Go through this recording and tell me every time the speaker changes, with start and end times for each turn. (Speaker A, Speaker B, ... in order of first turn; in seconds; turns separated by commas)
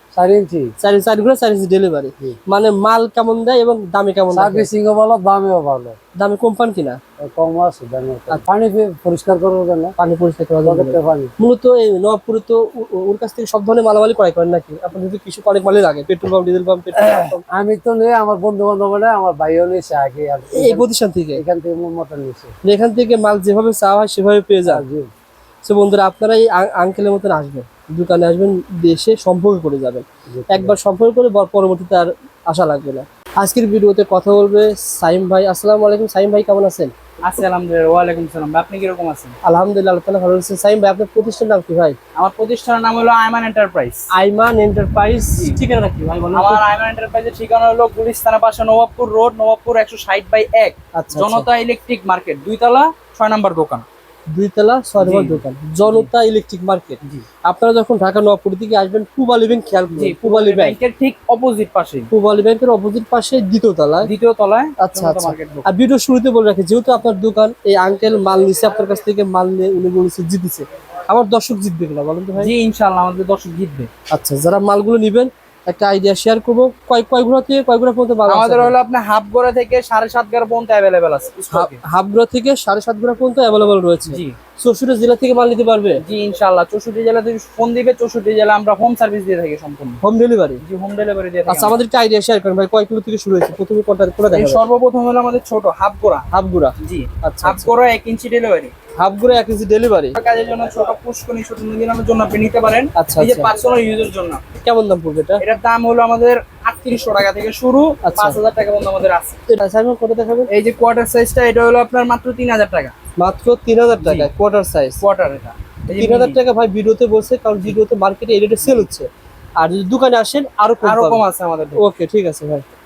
Speaker A: 0.1-0.7, Speaker B: 0.8-4.7, Speaker A: 4.3-6.0, Speaker B: 6.2-7.0, Speaker A: 7.2-9.9, Speaker B: 10.0-17.4, Speaker A: 10.6-11.3, Speaker A: 17.5-22.5, Speaker B: 20.5-21.4, Speaker B: 22.6-24.8, Speaker A: 24.6-25.1, Speaker B: 25.6-36.9, Speaker A: 30.3-30.8, Speaker C: 37.2-39.3, Speaker B: 39.4-42.0, Speaker C: 42.1-44.1, Speaker B: 44.1-46.6, Speaker C: 46.3-53.9, Speaker B: 50.9-51.5, Speaker B: 54.3-60.8, Speaker C: 55.0-56.1, Speaker C: 59.9-62.1, Speaker B: 62.1-64.1, Speaker C: 64.0-65.7, Speaker B: 64.8-72.5, Speaker C: 72.4-73.9, Speaker B: 74.1-78.8, Speaker C: 78.3-81.8, Speaker B: 81.5-86.0, Speaker C: 84.1-84.3, Speaker C: 86.0-90.0, Speaker B: 90.0-90.6, Speaker C: 90.6-91.8, Speaker B: 91.5-94.6, Speaker C: 94.3-96.2, Speaker B: 96.3-97.7, Speaker C: 96.8-98.7, Speaker B: 99.0-100.2, Speaker C: 100.2-104.4, Speaker B: 103.0-103.5, Speaker B: 104.6-105.4, Speaker C: 105.4-109.4, Speaker B: 108.0-108.4, Speaker B: 109.5-110.5, Speaker C: 110.5-112.9, Speaker B: 113.2-115.0, Speaker C: 114.0-114.3, Speaker C: 115.0-116.4, Speaker B: 115.9-119.1, Speaker B: 119.6-121.2, Speaker C: 120.8-121.8, Speaker B: 121.8-122.6